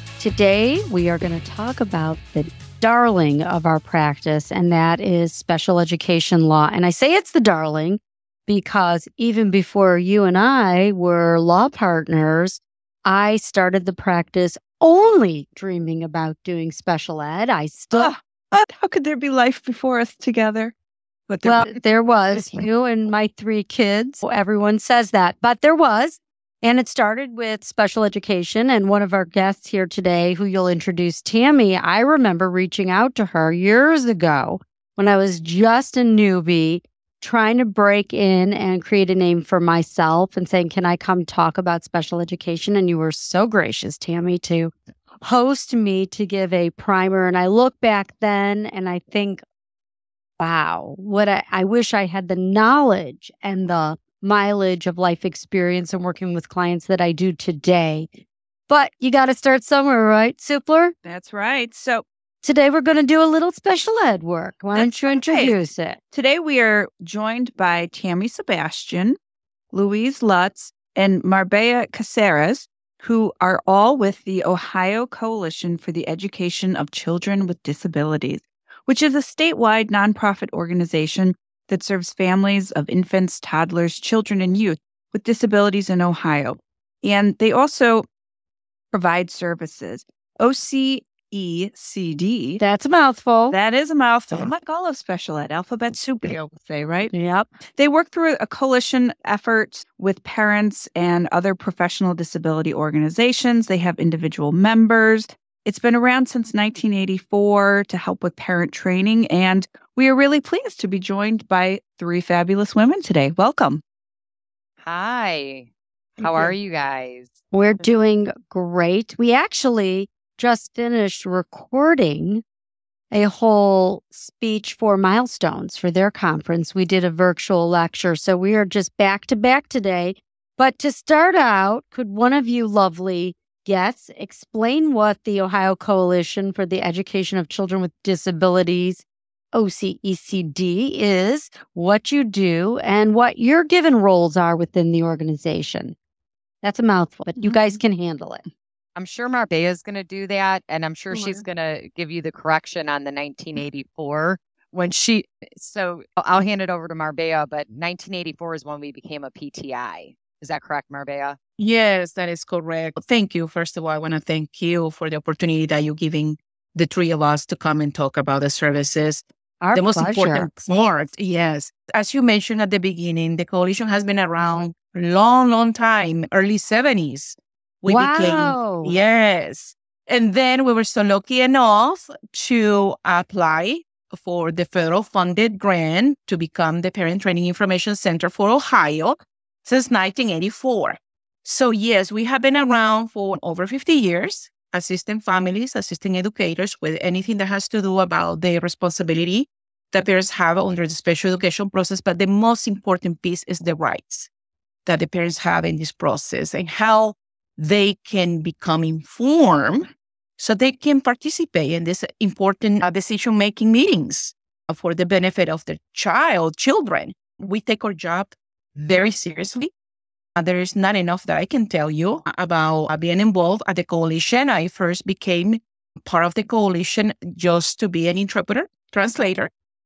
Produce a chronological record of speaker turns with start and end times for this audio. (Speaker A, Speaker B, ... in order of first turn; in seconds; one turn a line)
Speaker A: 0.2-18.1
Speaker B: 17.9-20.7
Speaker B: 21.3-21.7
Speaker A: 21.4-49.4
Speaker A: 50.4-58.1
Speaker A: 58.7-61.0
Speaker B: 61.0-62.0
Speaker A: 62.4-66.0
Speaker B: 64.7-65.6
Speaker B: 66.1-69.2
Speaker B: 69.7-88.1
Speaker B: 88.9-92.6
Speaker A: 92.6-93.6
Speaker B: 93.5-97.1
Speaker A: 97.1-97.5
Speaker B: 97.7-113.8
Speaker C: 114.8-117.3
Speaker A: 117.5-122.4
Speaker A: 123.1-146.0
Speaker A: 146.6-148.4
Speaker B: 147.4-147.8
Speaker C: 149.0-161.4
Speaker D: 161.6-204.3
Speaker A: 169.6-170.5
Speaker A: 177.9-178.9
Speaker D: 204.9-219.7
Speaker D: 220.4-229.5